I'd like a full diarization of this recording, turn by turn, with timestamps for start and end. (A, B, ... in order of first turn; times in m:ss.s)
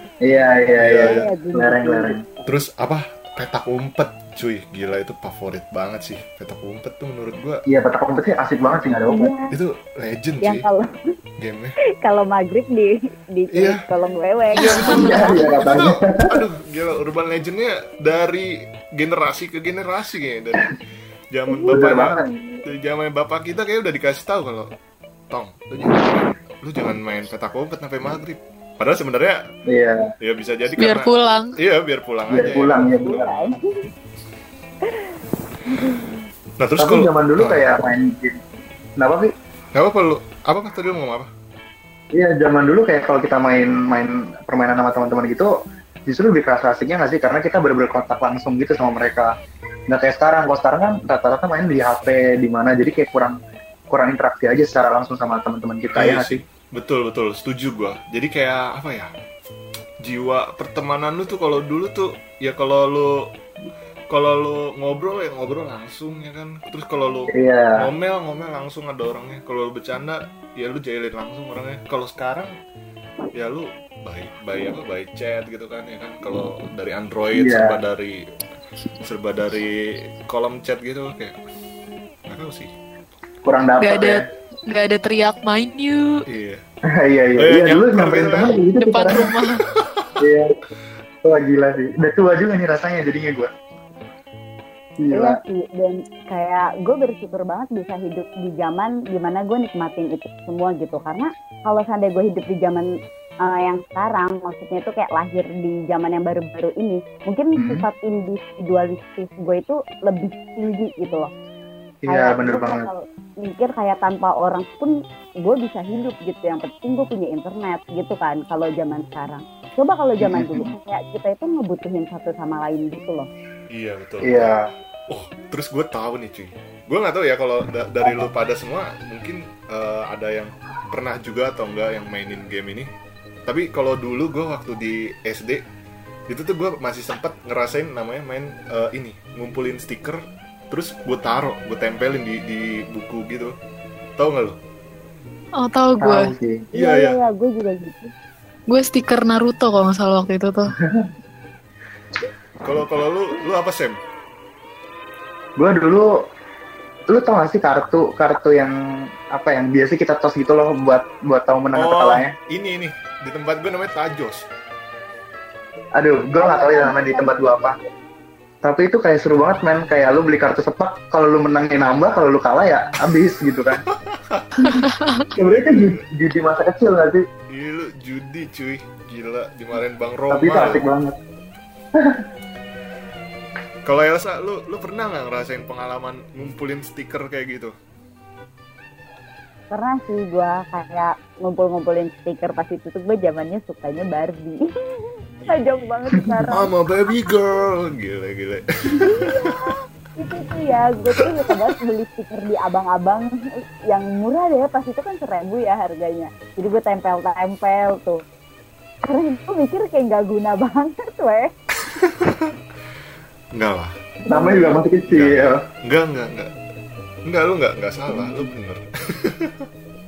0:00.2-0:02.2 A
0:00.8-0:01.3 B
0:01.0-0:02.2 C
0:02.4-0:07.6 B
0:07.7-0:09.3 A
0:09.1-0:09.5 C
0:09.5-0:10.7 B
0:10.4-0:10.9 C
0:11.4-0:11.7 B
0:12.0-0:15.4 C
0:13.5-0:13.8 B
0:14.5-0:20.8 B
0:14.6-0:15.3 D
0:14.9-0:16.3 A
0:21.3-0:24.7 B
0:21.5-0:21.8 C
0:21.7-0:22.3 A
0:25.3-0:29.4 B
0:29.7-0:30.0 A
0:30.2-0:33.6 B
0:30.7-0:31.6 D
0:32.3-0:33.2 A
0:33.0-0:33.7 C
0:35.7-0:36.2 C
0:36.6-0:37.6 B
0:36.8-0:38.4 A
0:39.0-0:39.3 A
0:39.7-0:41.3 B
0:42.1-0:45.5 A
0:46.1-0:49.3 A
0:49.9-0:53.4 A
0:53.9-0:56.4 A
0:55.9-0:59.1 B
1:00.0-1:03.1 B
1:04.1-1:12.5 B
1:07.3-1:07.9 A
1:13.4-1:18.2 B
1:17.3-1:17.8 A
1:19.0-1:21.4 B
1:22.3-1:22.7 B
1:23.4-1:24.2 A
1:23.8-1:26.2 D
1:26.3-1:26.6 B
1:27.0-1:29.4 A
1:27.4-1:28.6 B
1:28.8-1:29.7 D
1:29.8-1:30.1 B
1:30.2-1:30.5 A
1:31.2-1:33.5 A
1:35.0-1:35.4 A
1:35.1-1:42.9 C
1:43.4-1:51.3 C
1:47.6-1:47.9 A
1:52.0-1:52.9 A
1:52.1-2:03.3 C
2:00.2-2:00.7 A
2:03.7-2:04.5 B
2:04.2-2:04.7 A
2:05.1-2:12.9 B
2:13.5-2:15.6 B
2:16.3-2:23.6 B
2:24.2-2:24.6 B
2:25.6-2:26.3 D
2:26.0-2:26.7 A
2:26.7-2:27.2 B
2:26.8-2:28.1 C
2:28.7-2:30.7 D
2:32.6-2:34.0 B
2:35.6-2:36.1 A
2:37.1-2:38.7 A
2:39.3-2:42.3 A
2:41.7-2:44.5 B
2:46.0-2:47.8 A
2:46.4-2:47.4 C
2:48.6-2:53.8 A
2:54.1-2:56.0 B
2:54.6-2:55.0 D
2:55.4-2:57.2 A
2:57.5-3:00.8 B
3:00.3-3:01.2 A
3:02.0-3:02.2 A
3:03.8-3:07.7 B
3:09.7-3:16.7 C
3:16.5-3:19.6 B
3:19.0-3:23.4 C
3:23.9-3:28.2 C
3:29.0-3:31.5 C
3:32.0-3:32.5 B
3:33.5-3:34.0 B
3:34.3-3:34.8 C
3:34.3-3:35.6 A
3:35.1-3:36.5 B
3:37.3-3:39.7 B